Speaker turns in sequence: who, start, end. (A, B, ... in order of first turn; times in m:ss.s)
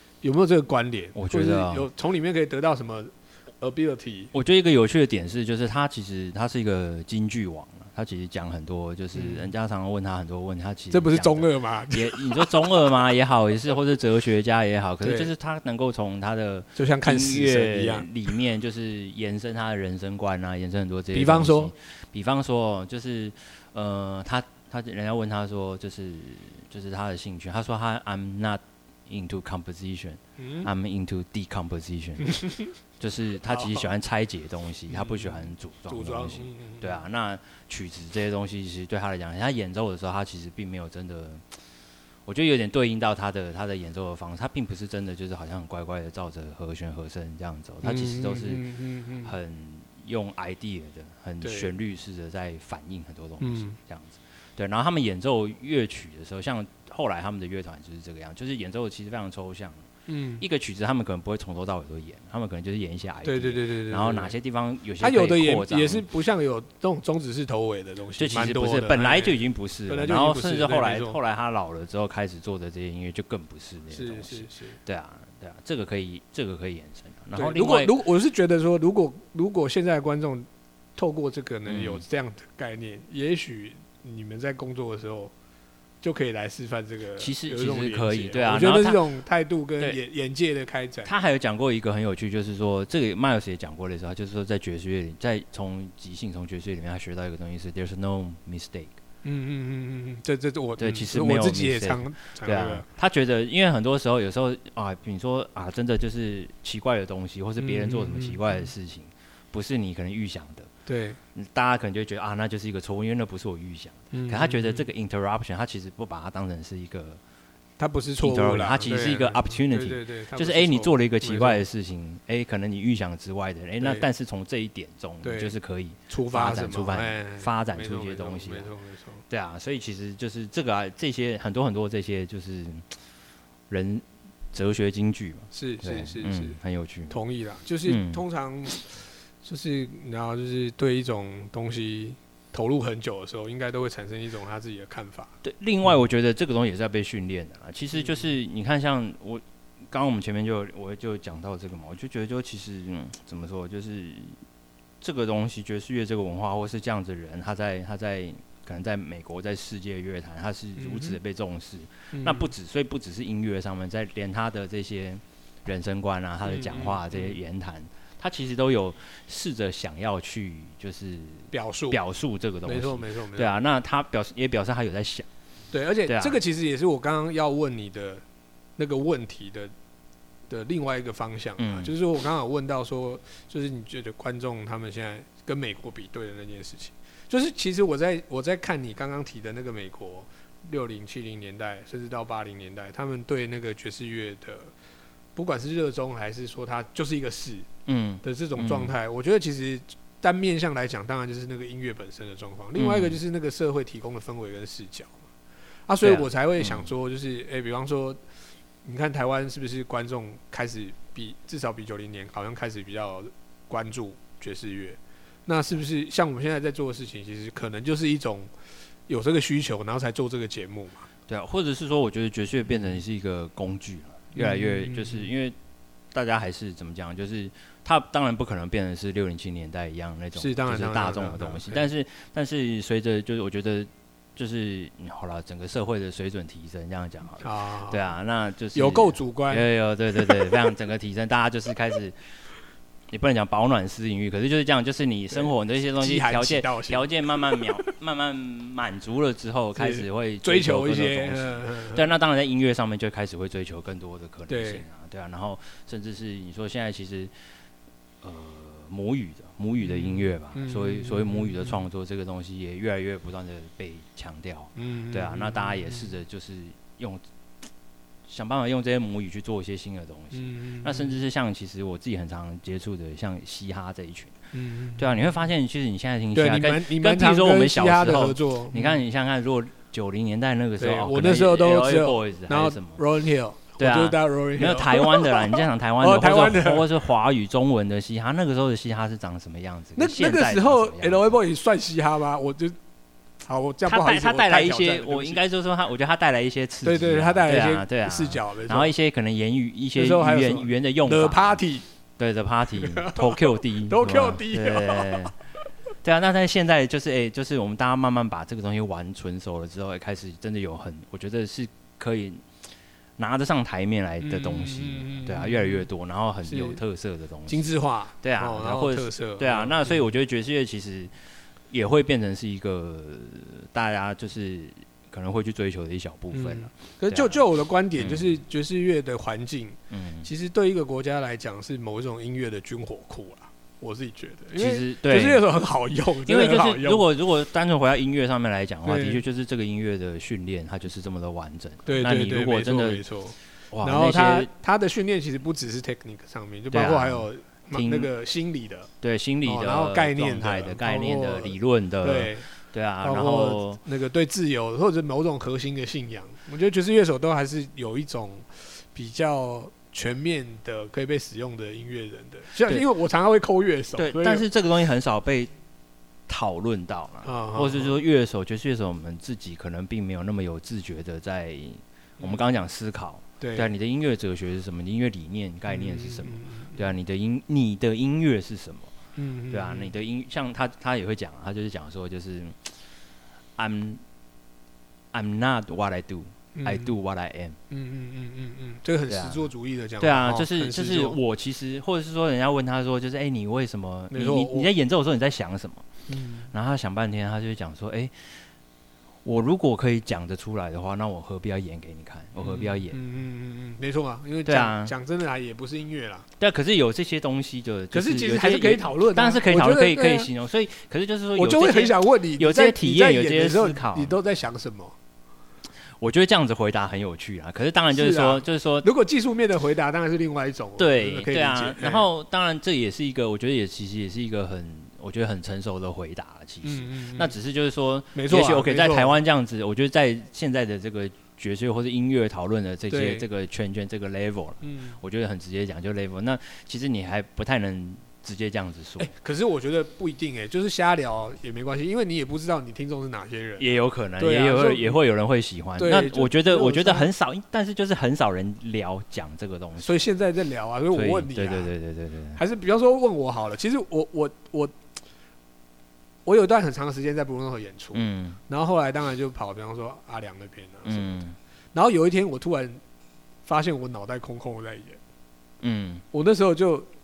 0:00.2-0:04.3 A
0:01.1-0:01.9 B
0:04.3-0:32.4 B
0:09.1-0:09.5 A
0:10.9-0:12.6 A
0:15.0-0:15.3 A
0:16.8-0:18.3 A
0:21.1-0:21.7 A
0:30.4-0:30.7 A
0:32.3-0:32.7 A
0:33.0-0:41.4 B
0:33.5-0:33.9 A
0:34.9-0:37.0 A
0:42.3-0:48.7 B
0:47.8-0:49.3 A
0:49.2-0:59.8 B
0:51.4-0:51.7 A
0:53.4-0:53.8 A
1:00.1-1:00.4 A
1:00.4-1:06.0 B
1:03.2-1:04.3 A
1:05.0-1:11.2 A
1:08.2-1:18.0 B
1:13.9-1:14.8 A
1:17.4-1:25.3 A
1:21.7-1:22.0 B
1:26.0-1:31.1 A
1:27.2-1:29.0 B
1:31.0-1:38.9 B
1:39.2-1:42.9 A
1:40.8-1:50.7 B
1:47.6-1:48.7 A
1:50.9-1:51.2 A
1:51.4-1:57.2 B
1:54.1-1:54.9 A
1:57.8-2:01.6 A
1:58.2-2:08.7 B
2:05.2-2:05.5 A
2:06.1-2:09.2 A
2:09.3-2:12.9 B
2:13.7-2:17.2 B
2:15.5-2:16.6 A
2:17.1-2:25.3 A
2:17.9-2:18.2 B
2:25.4-2:34.4 B
2:27.9-2:28.2 A
2:35.0-2:55.3 B
2:40.8-2:41.2 A
2:42.1-2:42.5 A
2:46.4-2:47.4 A
2:51.5-2:52.0 A
2:52.7-2:53.5 A
2:55.7-2:58.2 A
2:56.1-2:56.4 B
2:58.8-2:59.7 A
3:00.5-3:14.7 A
3:01.6-3:01.9 B
3:15.4-3:17.7 A
3:17.9-3:18.9 B
3:18.2-3:25.2 A
3:22.8-3:23.2 B
3:25.9-3:28.2 A
3:26.0-3:26.9 B
3:28.8-3:38.5 A
3:39.1-3:41.1 A
3:41.3-3:45.6 B
3:42.7-3:43.0 A
3:44.4-3:45.3 A
3:46.1-4:02.2 B
3:50.4-3:51.9 A
3:57.4-3:58.1 A
3:58.7-4:00.6 A
4:03.1-4:17.3 B
4:05.3-4:07.9 A
4:09.8-4:12.1 A
4:14.5-4:14.8 A
4:18.2-4:27.2 B
4:19.8-4:21.8 A
4:24.8-4:26.1 A
4:28.3-4:34.4 B
4:30.3-4:31.2 A
4:34.5-4:35.3 A
4:35.0-4:43.0 B
4:36.3-4:39.0 A
4:40.8-4:46.9 A
4:43.8-4:51.4 B
4:50.0-4:52.8 A
4:53.4-4:55.4 A
4:53.9-5:01.6 B
4:56.8-4:58.9 A
5:00.0-5:01.8 A
5:02.2-5:05.4 B
5:02.8-5:05.3 A
5:06.0-5:12.4 B
5:13.2-5:17.7 B
5:14.2-5:15.9 A
5:16.4-5:16.8 A
5:17.5-5:20.1 A
5:18.2-5:21.1 B
5:21.7-5:27.4 B
5:26.3-5:37.0 A
5:28.0-5:28.4 B
5:29.9-5:30.3 B
5:34.6-5:35.4 B
5:36.3-5:43.0 B
5:38.8-5:39.2 A
5:41.9-5:48.9 A
5:43.7-5:44.5 B
5:46.7-5:48.1 B
5:49.0-5:53.8 B
5:49.4-5:52.5 A
5:53.0-6:04.5 A
6:04.0-6:05.5 B
6:06.3-6:18.9 B
6:07.2-6:08.0 A
6:12.2-6:12.4 A
6:13.4-6:13.7 A
6:15.7-6:16.8 A
6:19.2-6:19.9 A
6:19.5-6:22.8 B
6:23.6-6:24.0 B
6:25.1-6:27.6 B
6:26.6-6:27.0 A
6:27.7-6:31.2 A
6:29.1-6:29.5 B
6:30.0-6:35.8 B
6:34.1-6:34.7 A
6:36.1-6:36.5 A
6:36.5-6:38.4 B
6:39.2-6:43.0 B
6:42.4-6:46.3 A
6:44.4-6:44.9 B
6:46.4-6:54.2 B
6:47.9-6:50.3 A
6:51.4-6:55.0 A
6:56.0-6:58.9 B
6:57.9-7:02.0 A
7:00.8-7:19.1 B
7:06.6-7:07.3 A
7:08.2-7:09.2 A
7:12.9-7:13.3 A
7:14.6-7:15.0 A
7:19.0-7:25.0 A
7:23.6-7:30.0 B
7:25.8-7:27.1 A
7:29.8-7:31.7 A
7:30.9-7:32.4 B
7:32.4-7:34.8 A
7:36.3-7:41.2 A
7:37.9-7:38.4 B
7:40.8-7:41.4 B
7:41.7-7:42.8 A
7:43.4-7:45.0 A
7:45.6-7:46.0 B
7:46.1-7:46.9 A